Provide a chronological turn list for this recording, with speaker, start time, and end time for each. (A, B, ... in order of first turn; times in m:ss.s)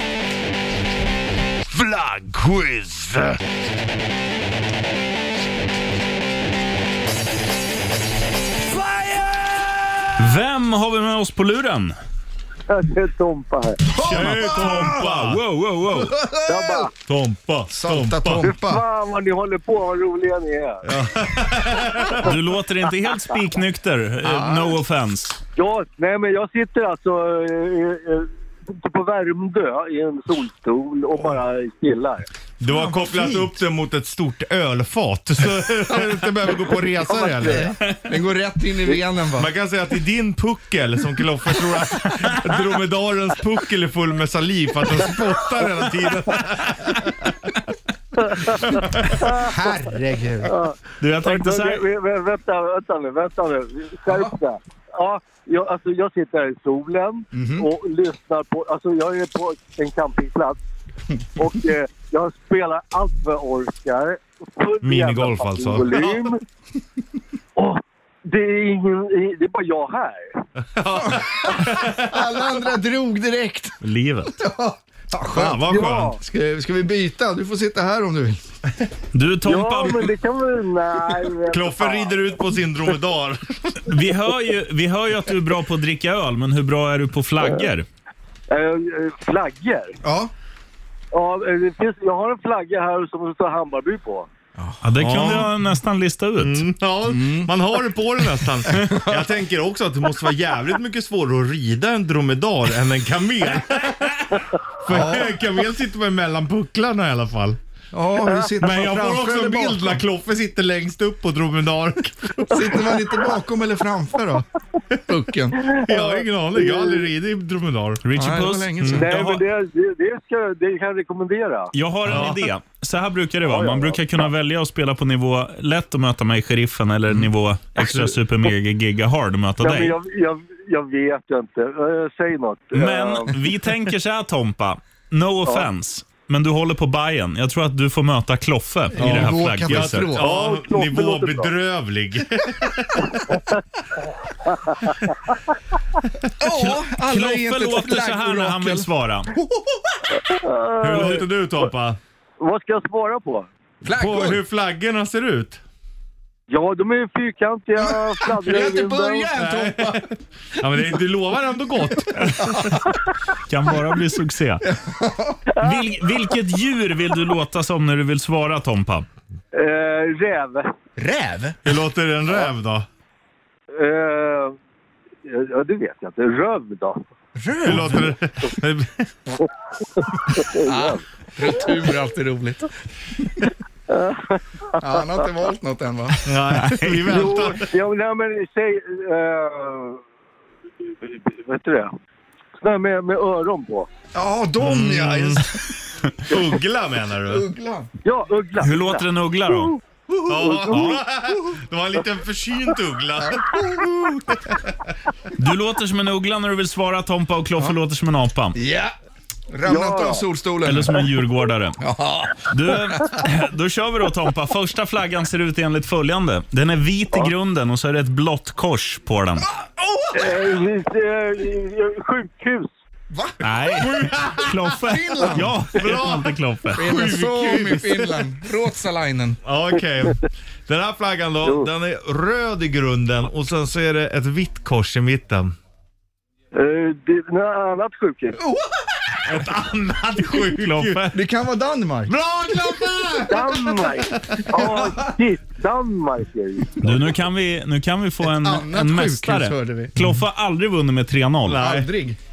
0:10.2-0:11.9 A
0:12.7-0:13.8 B
0:13.9-0:15.0 C
0:14.0-0:15.4 D
0:14.0-0:16.2 A
0:15.9-0:16.9 C
0:16.5-0:16.9 B
0:17.1-0:18.5 D
0:17.7-0:18.8 C
0:18.4-0:20.8 B
0:20.8-0:22.3 D
0:22.2-0:25.4 A
0:24.2-0:24.8 C
0:25.6-0:32.3 B
0:32.6-0:37.8 D
0:32.6-0:33.5 C
0:37.1-0:37.7 B
0:37.4-0:39.5 C
0:39.3-0:47.1 D
0:49.3-0:50.6 C
0:50.4-1:00.6 B
0:51.0-0:51.8 A
0:54.1-0:54.3 C
0:57.3-0:57.7 C
1:01.4-1:06.4 B
1:04.8-1:06.3 D
1:07.6-1:10.4 B
1:10.7-1:12.2 D
1:10.9-1:13.8 C
1:13.8-1:14.3 A
1:14.3-1:18.4 C
1:15.3-1:16.1 D
1:15.6-1:16.2 B
1:19.1-1:20.1 A
1:19.4-1:22.3 B
1:21.5-1:23.8 D
1:23.8-1:27.8 A
1:28.5-1:30.0 B
1:30.0-1:30.3 C
1:31.1-1:34.3 B
1:34.6-1:35.4 C
1:34.8-1:36.6 A
1:35.0-1:35.5 D
1:36.4-1:47.6 D
1:37.1-1:37.5 C
1:38.7-1:39.2 C
1:44.9-1:45.4 C
1:47.9-1:50.0 C
1:48.6-1:52.9 D
1:52.5-1:54.4 C
1:55.1-1:55.7 C
1:55.6-1:58.0 D
1:58.0-1:59.4 A
1:58.1-1:59.1 C
1:59.0-2:01.7 B
2:01.7-2:10.0 A
2:02.0-2:02.4 D
2:03.4-2:04.0 B
2:09.6-2:13.3 B
2:12.7-2:20.1 A
2:18.9-2:20.5 C
2:19.0-2:23.4 D
2:20.1-2:21.5 B
2:26.4-2:29.9 C
2:26.5-2:29.3 A
2:30.3-2:31.3 B
2:30.8-2:32.0 D
2:32.4-2:33.5 B
2:33.8-2:34.4 C
2:33.8-2:35.6 D
2:36.5-2:39.3 B
2:38.2-2:40.1 C
2:39.3-2:40.1 D
2:40.6-2:42.7 D
2:43.5-2:44.6 A
2:44.6-2:45.4 C
2:45.6-2:49.0 A
2:49.5-2:50.7 B
2:51.0-2:51.6 C
2:51.6-2:52.8 D
2:53.7-2:54.6 B
2:55.2-2:57.0 B
2:57.4-2:58.1 C
2:57.6-2:59.0 D
3:00.0-3:01.0 B
3:00.5-3:02.7 C
3:03.9-3:05.0 B
3:04.8-3:06.2 C
3:06.2-3:07.7 D
3:06.6-3:06.9 A
3:07.1-3:10.0 B
3:11.0-3:11.9 B
3:12.6-3:13.9 B
3:14.1-3:15.6 C
3:14.6-3:15.4 D
3:16.3-3:17.4 D
3:17.2-3:17.9 C
3:18.0-3:19.8 B
3:18.6-3:19.7 A
3:20.3-3:23.6 D
3:20.3-3:21.0 B
3:23.2-3:24.4 C
3:25.4-3:28.6 A
3:28.5-3:28.9 C
3:29.5-3:31.1 C
3:29.6-3:30.2 B
3:30.6-3:31.8 A
3:31.8-3:33.1 C
3:32.5-3:39.5 A
3:39.5-3:40.4 C
3:40.1-3:42.7 B
3:43.1-3:44.2 C
3:43.4-3:46.9 A
3:43.8-3:44.4 D
3:44.7-3:45.6 C
3:45.4-3:48.2 D
3:46.7-3:49.4 C
3:49.4-3:55.5 D
3:56.5-3:58.4 B
3:58.4-3:58.8 C
3:59.2-4:01.2 D
4:00.2-4:01.1 A
4:01.1-4:02.2 C
4:02.1-4:04.7 D
4:03.3-4:07.0 B
4:06.8-4:11.6 A
4:08.2-4:09.9 C
4:11.5-4:11.9 D
4:11.5-4:12.2 C